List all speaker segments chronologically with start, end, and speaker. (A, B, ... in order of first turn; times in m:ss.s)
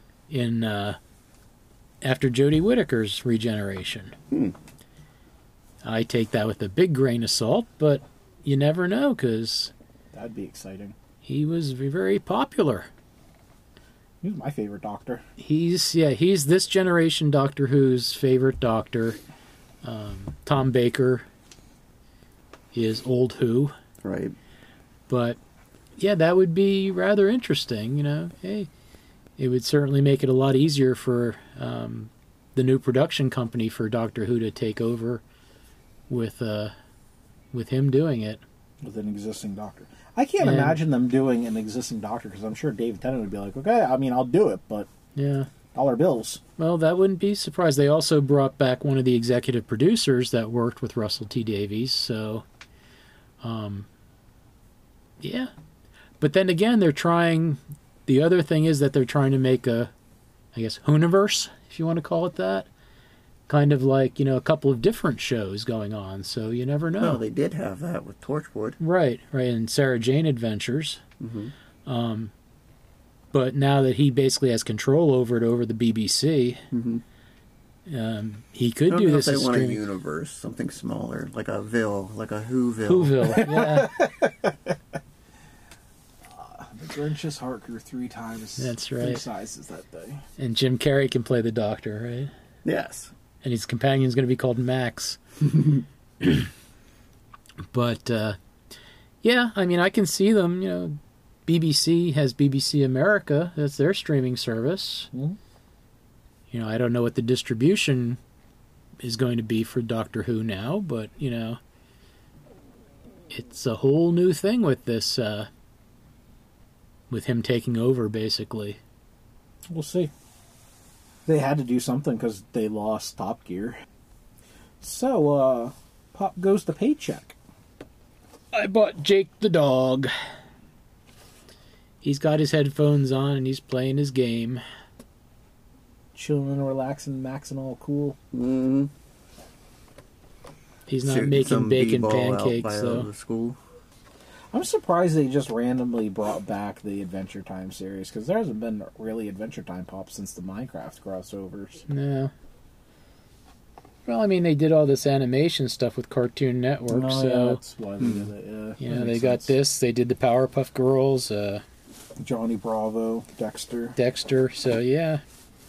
0:00.3-0:01.0 A
0:02.0-0:04.2 A
0:05.8-0:09.7 A
0:10.1-0:11.0 B
0:11.2-0:12.9 A
0:14.2-0:15.2 B
0:15.4-0:19.2 A
0:19.8-0:21.3 A
0:22.7-0:23.7 A
0:24.0-0:24.4 C
0:25.1-0:25.4 A
0:26.0-0:28.7 A
0:29.4-0:35.2 A
0:36.1-0:36.7 A
0:37.5-0:38.4 A
0:38.8-0:44.9 B
0:40.4-0:40.8 A
0:45.2-0:45.5 A
0:45.7-0:46.4 B
0:46.6-0:52.4 A
0:53.4-0:53.9 A
0:55.2-0:55.5 A
0:56.2-0:59.9 A
1:00.6-1:02.7 A
1:03.5-1:07.2 A
1:07.0-1:08.8 C
1:08.8-1:11.0 A
1:11.2-1:11.5 C
1:11.9-1:12.3 A
1:13.3-1:16.6 A
1:16.7-1:17.0 C
1:17.9-1:19.8 A
1:18.9-1:23.4 C
1:22.9-1:24.0 A
1:23.4-1:24.7 B
1:26.3-1:30.2 B
1:28.6-1:29.2 A
1:30.4-1:32.3 A
1:32.6-1:33.1 C
1:33.4-1:35.2 A
1:36.2-1:36.5 A
1:37.7-1:38.4 A
1:39.2-1:45.1 A
1:46.5-1:48.2 A
1:49.0-1:51.6 A
1:53.3-1:55.5 A
1:57.1-1:58.8 A
1:59.7-2:00.1 B
2:01.3-2:03.8 B
2:04.8-2:07.4 B
2:08.5-2:10.1 A
2:12.0-2:14.6 A
2:16.2-2:18.2 B
2:18.3-2:18.9 C
2:20.9-2:23.1 A
2:21.0-2:23.6 C
2:24.5-2:31.8 B
2:31.9-2:32.3 A
2:34.1-2:37.6 A
2:36.9-2:39.5 B
2:38.0-2:38.3 C
2:38.8-2:41.6 A
2:42.2-2:44.0 B
2:44.0-2:45.2 A